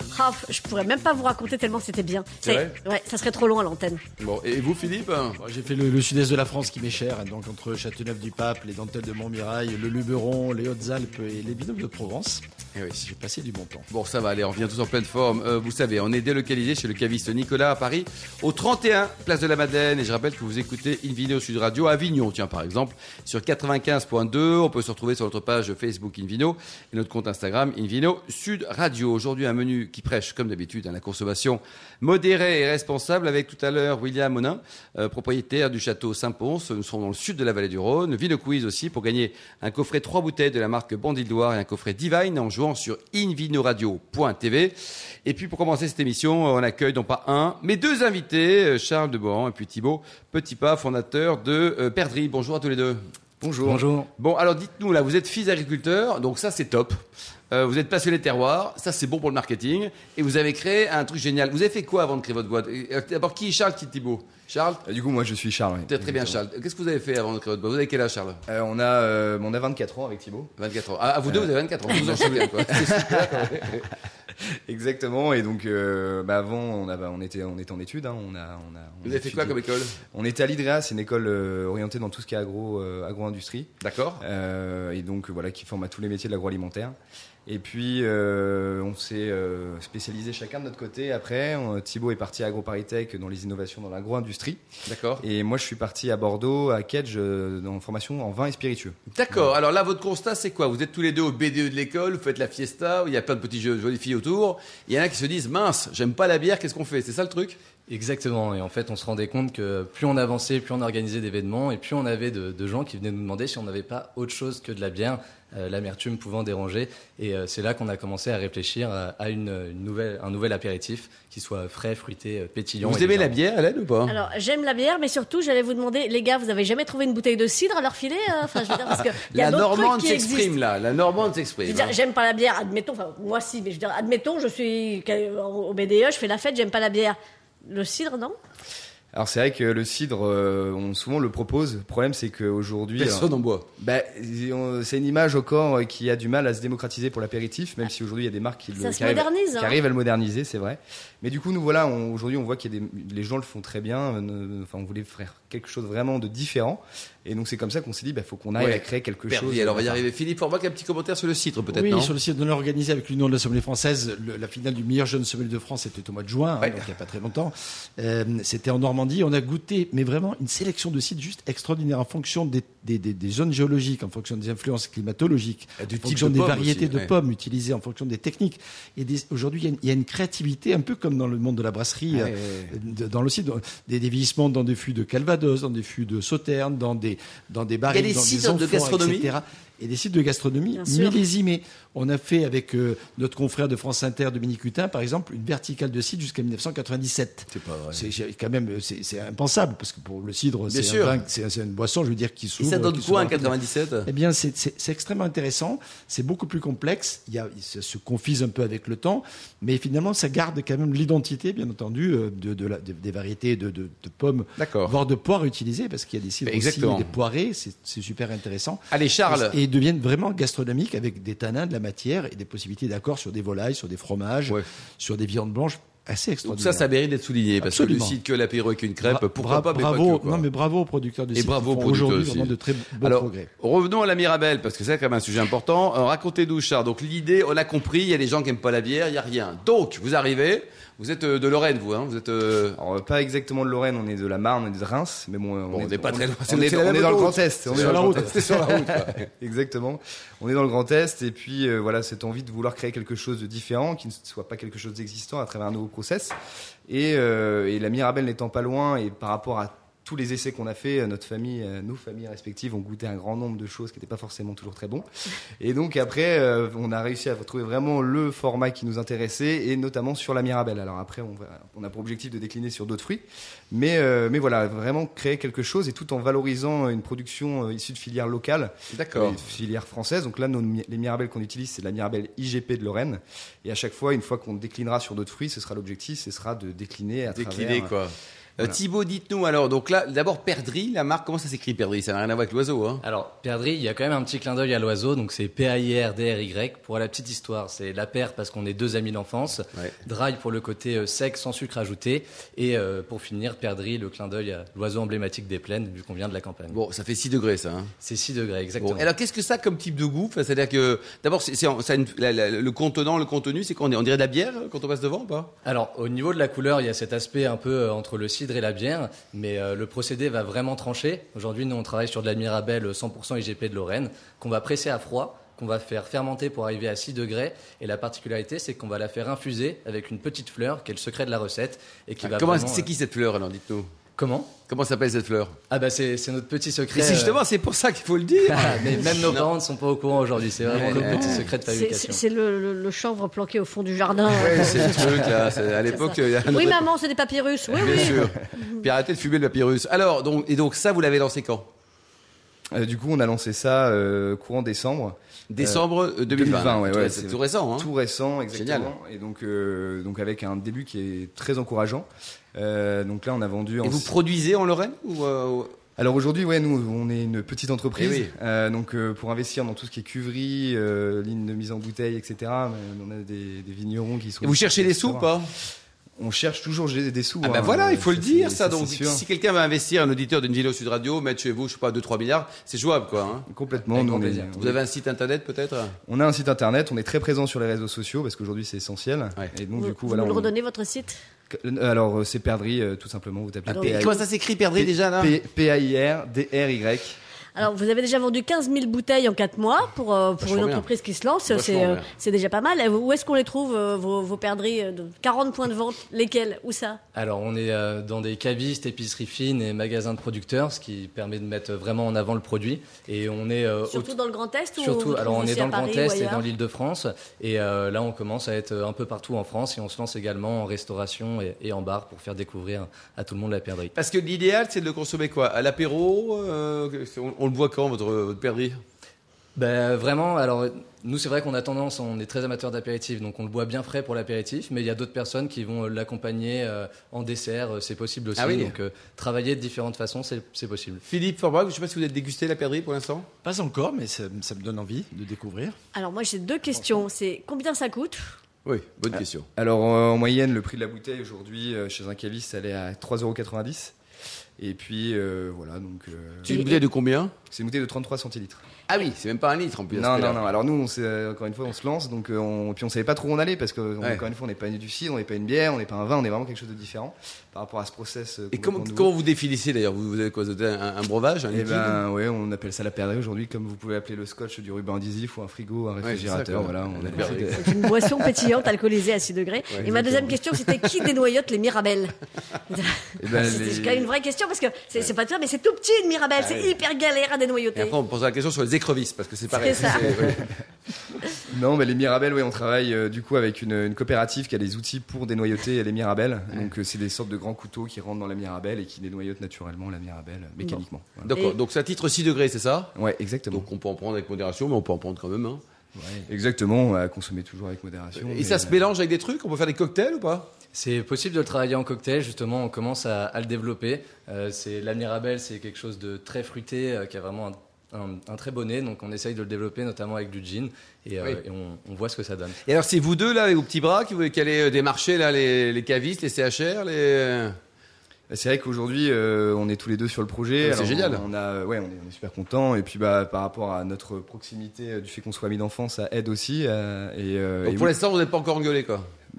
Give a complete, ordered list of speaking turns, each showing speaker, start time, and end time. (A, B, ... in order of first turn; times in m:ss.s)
0:00.1-0:04.0 A
0:02.4-0:02.8 B
0:04.2-0:05.4 B
0:05.4-0:13.9 C
0:12.8-0:13.0 B
0:13.9-0:53.0 B
0:53.4-0:53.8 D
0:53.6-0:54.1 E
0:54.2-1:04.8 B
1:04.9-1:06.4 D
1:05.9-1:08.4 B
1:08.5-1:10.5 D
1:10.6-1:13.9 B
1:12.3-1:13.9 D
1:14.7-1:19.6 D
1:19.0-1:20.0 B
1:20.1-1:34.6 D
1:23.8-1:24.2 B
1:34.9-1:35.2 B
1:35.2-1:39.0 D
1:39.1-1:47.6 B
1:47.9-2:03.4 E
2:02.8-2:04.2 B
2:04.1-2:10.6 A
2:09.2-2:12.0 B
2:11.7-2:18.4 A
2:19.1-2:40.0 D
2:23.0-2:23.7 B
2:28.8-2:29.8 A
2:38.6-2:42.1 B
2:41.7-3:46.8 C
2:55.8-2:57.1 B
3:02.1-3:02.7 B
3:07.9-3:09.3 B
3:10.8-3:11.2 A
3:17.5-3:18.1 B
3:20.7-3:21.2 B
3:22.6-3:24.1 B
3:34.6-3:34.9 B
3:36.5-3:37.1 B
3:38.9-3:39.6 B
3:46.4-3:50.4 B
3:47.6-3:48.2 C
3:49.0-3:53.5 C
3:51.3-4:02.8 B
4:02.8-4:16.4 D
4:05.7-4:09.3 B
4:07.7-4:09.2 C
4:16.9-4:25.0 D
4:25.6-4:48.0 D
4:38.9-4:39.4 B
4:47.3-4:53.0 B
4:53.0-5:06.8 E
5:06.7-5:07.9 B
5:08.0-5:09.1 E
5:08.8-5:15.5 B
5:15.6-5:32.9 E
5:32.2-5:33.9 B
5:34.2-5:34.5 E
5:34.7-5:35.6 B
5:35.7-5:37.4 E
5:36.9-5:39.5 B
5:38.5-5:42.2 E
5:38.9-5:39.3 D
5:40.6-5:41.5 B
5:41.6-5:45.3 A
5:44.3-5:46.8 D
5:44.3-5:46.9 B
5:45.9-5:48.9 A
5:47.8-5:51.7 B
5:47.8-5:48.5 D
5:52.7-6:04.1 D
5:55.5-5:57.9 B
5:58.5-5:58.9 B
6:03.8-6:05.8 B
6:06.0-6:15.4 D
6:08.0-6:08.3 B
6:14.4-6:15.5 B
6:16.2-6:19.2 D
6:17.4-6:23.5 B
6:23.5-6:24.8 D
6:23.8-6:24.5 E
6:24.6-6:26.0 B
6:26.1-6:30.5 D
6:29.8-6:31.2 A
6:31.5-6:34.2 D
6:33.7-6:34.1 A
6:33.8-6:35.4 B
6:34.8-6:37.2 D
6:37.6-6:47.0 A
6:40.4-6:40.9 B
6:41.5-6:42.1 B
6:47.1-6:54.1 E
6:53.9-6:56.5 A
6:54.8-7:03.9 E
7:04.0-7:08.8 B
7:09.6-7:21.0 E
7:18.4-7:18.8 B
7:21.1-7:23.3 B
7:23.4-7:25.8 C
7:25.9-7:28.3 A
7:28.6-7:29.5 B
7:29.6-7:33.9 D
7:34.6-7:36.7 D
7:36.5-7:37.3 B
7:36.5-7:36.8 A
7:37.5-7:38.6 D
7:38.9-7:40.4 B
7:39.9-7:49.1 D
7:48.5-7:52.0 B
7:51.5-7:57.8 D
7:56.0-7:57.9 B
7:57.2-8:02.1 A
7:59.8-8:00.4 D
8:02.7-8:08.0 A
8:03.2-8:04.1 D
8:06.4-8:06.7 B
8:07.8-8:10.5 B
8:09.5-8:10.3 A
8:11.5-8:21.3 D
8:21.2-8:22.9 B
8:22.9-8:23.7 D
8:23.5-8:25.6 B
8:26.0-8:28.8 D
8:28.2-8:30.5 B
8:30.7-8:42.6 E
8:42.6-8:47.6 B
8:48.3-8:57.9 D
8:50.6-8:51.2 B
8:57.6-8:59.1 B